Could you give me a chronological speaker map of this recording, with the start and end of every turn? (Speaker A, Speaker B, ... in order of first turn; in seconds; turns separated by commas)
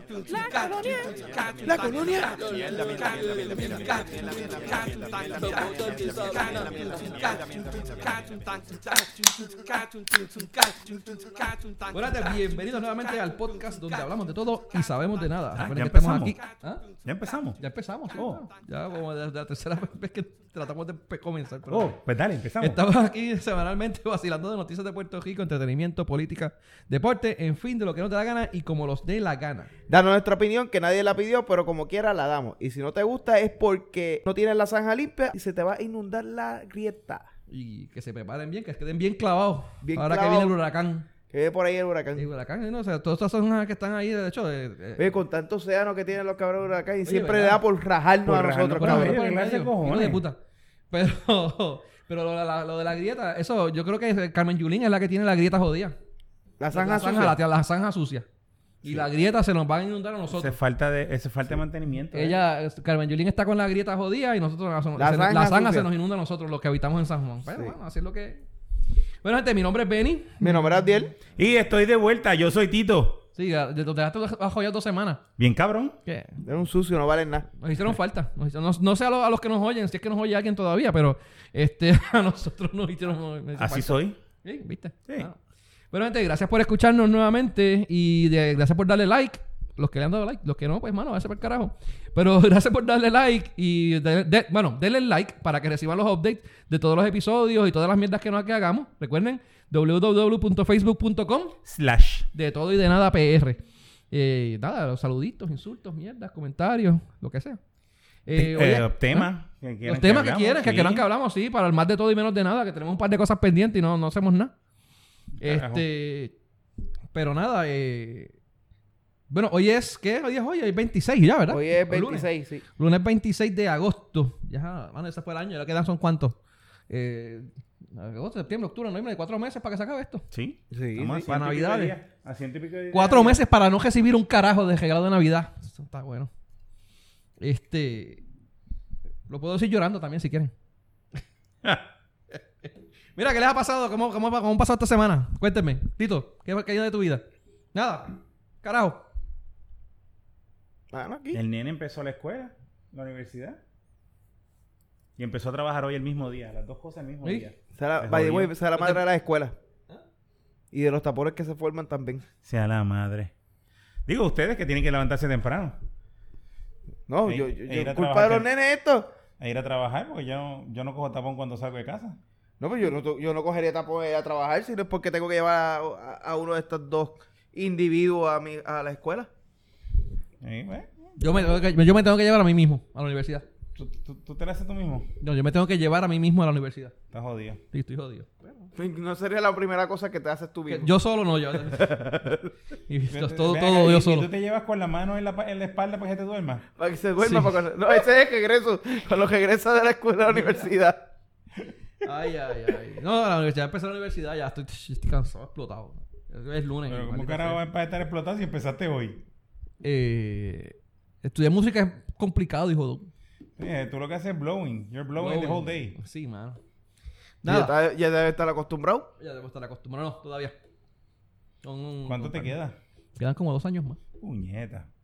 Speaker A: 0.3-1.2, Speaker B: 0.4-1.1, Speaker B: 1.6-2.4, Speaker A: 2.0-4.2, Speaker A: 5.1-6.9, Speaker A: 9.1-9.5, Speaker A: 11.8-16.9, Speaker C: 15.5-16.3, Speaker C: 16.9-17.6, Speaker A: 17.6-22.0, Speaker C: 18.1-18.5, Speaker C: 21.7-22.8, Speaker A: 22.6-29.7, Speaker B: 29.9-37.2, Speaker A: 37.5-41.1, Speaker B: 39.8-40.5, Speaker B: 41.3-42.3, Speaker A: 42.1-45.1, Speaker B: 45.0-49.2, Speaker A: 47.0-47.6, Speaker C: 48.2-50.2, Speaker A: 48.7-50.4, Speaker A: 50.9-56.0, Speaker B: 56.6-57.4, Speaker A: 56.7-58.2, Speaker A: 58.8-60.5, Speaker C: 60.3-62.4, Speaker A: 62.1-68.4, Speaker B: 65.0-65.9, Speaker B: 67.5-67.7, Speaker A: 69.2-70.7, Speaker B: 70.4-71.1, Speaker C: 71.3-73.2, Speaker A: 73.3-75.2, Speaker C: 75.4-76.0, Speaker A: 76.0-76.4, Speaker B: 76.4-77.5, Speaker A: 77.6-85.4, Speaker C: 83.5-84.2, Speaker A: 85.9-101.6, Speaker C: 101.6-102.3, Speaker A: 102.3-103.6, Speaker A: 104.1-107.6, Speaker A: 108.2-109.3, Speaker C: 108.3-111.0, Speaker A: 109.8-114.5, Speaker C: 115.4-115.8, Speaker A: 115.4-116.3, Speaker A: 117.1-118.3, Speaker A: 119.3-126.4, Speaker B: 121.5-122.6, Speaker A: 126.9-130.2, Speaker C: 130.3-133.4, Speaker B: 130.7-131.3, Speaker A: 131.2-132.0, Speaker A: 132.9-136.3, Speaker A: 137.4-138.2, Speaker A: 139.3-140.5, Speaker A: 143.2-149.0, Speaker B: 150.9-151.4, Speaker C: 151.3-153.6, Speaker C: 155.2-158.5, Speaker B: 157.8-159.5, Speaker A: 158.8-159.0, Speaker B: 160.7-162.2, Speaker C: 162.4-163.3, Speaker C: 164.1-165.8, Speaker B: 167.1-169.1, Speaker C: 167.2-168.5, Speaker C: 169.4-172.2, Speaker B: 172.6-179.3, Speaker C: 180.4-181.1, Speaker A: 181.2-183.4, Speaker C: 183.7-185.1, Speaker A: 185.2-186.9, Speaker C: 187.1-187.6, Speaker A: 187.7-188.7, Speaker B: 188.8-190.9, Speaker A: 190.7-192.0, Speaker B: 191.6-192.5, Speaker A: 192.9-194.3, Speaker C: 193.1-196.7, Speaker B: 196.8-201.0, Speaker A: 197.2-197.6, Speaker A: 200.3-200.7, Speaker A: 202.0-207.6, Speaker C: 206.9-209.2, Speaker A: 209.8-213.1, Speaker C: 213.6-215.9, Speaker A: 215.2-216.6, Speaker A: 217.4-217.7, Speaker B: 217.4-219.1, Speaker A: 219.2-220.5, Speaker A: 221.6-222.5, Speaker C: 222.0-222.8, Speaker A: 223.2-224.0, Speaker C: 224.2-224.9